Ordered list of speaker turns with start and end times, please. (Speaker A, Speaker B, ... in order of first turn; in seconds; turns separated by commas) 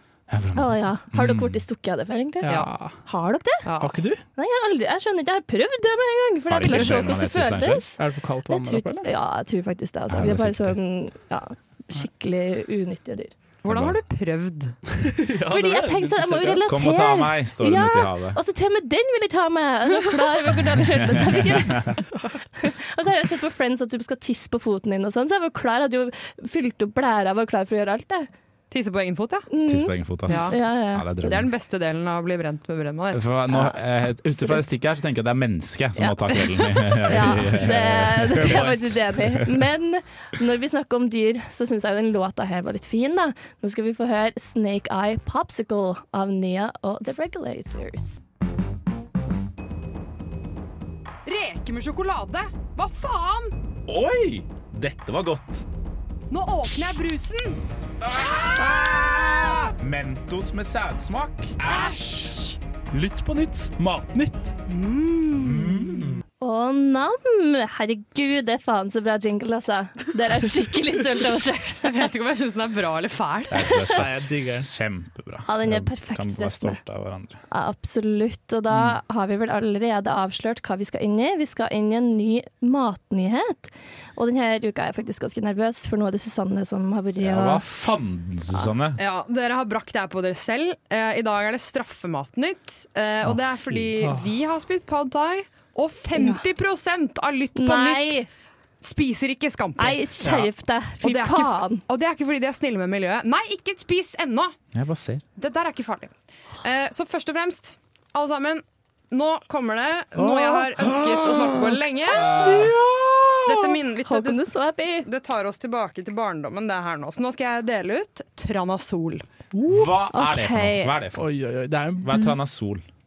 Speaker A: 0.3-1.6, Speaker B: 0.5-3.6, Speaker C: 2.4-3.0, Speaker D: 2.5-2.7, Speaker D: 3.6-3.9, Speaker C: 3.8-4.2, Speaker B: 4.4-8.0, Speaker A: 6.5-7.8, Speaker C: 8.0-9.1, Speaker B: 8.5-13.3, Speaker A: 10.1-10.8, Speaker D: 13.6-14.8, Speaker A: 13.7-14.0, Speaker C: 15.0-16.7, Speaker B: 15.4-28.3, Speaker A: 16.6-18.4, Speaker A: 20.7-22.0, Speaker D: 28.7-29.5, Speaker B: 29.5-31.1, Speaker A: 29.6-31.5, Speaker D: 30.3-30.6, Speaker D: 31.2-33.2, Speaker A: 33.1-39.5, Speaker B: 33.5-33.8, Speaker B: 34.3-34.7, Speaker B: 36.0-48.2, Speaker C: 38.3-38.8, Speaker D: 51.2-53.5, Speaker A: 53.9-55.6, Speaker D: 56.3-57.6, Speaker A: 58.0-62.1, Speaker D: 61.6-62.5, Speaker A: 62.9-64.5, Speaker D: 64.7-65.9, Speaker A: 65.3-66.2, Speaker B: 66.4-71.9, Speaker D: 71.8-73.8, Speaker A: 73.5-77.4, Speaker C: 73.9-74.7, Speaker B: 75.5-76.8, Speaker B: 77.5-87.6, Speaker A: 87.2-89.0, Speaker D: 89.0-98.3, Speaker C: 94.0-94.3, Speaker B: 96.1-96.4, Speaker B: 97.5-98.2, Speaker D: 98.8-100.0, Speaker B: 99.8-101.8, Speaker C: 100.2-100.5, Speaker D: 101.0-104.5, Speaker A: 104.7-105.2, Speaker D: 105.4-112.5, Speaker A: 110.2-113.5, Speaker C: 112.1-112.8, Speaker D: 113.5-114.5, Speaker B: 114.0-115.1, Speaker D: 115.0-119.2, Speaker C: 119.5-119.9, Speaker A: 119.7-121.3, Speaker B: 120.1-120.9, Speaker C: 121.2-122.4, Speaker A: 122.0-122.8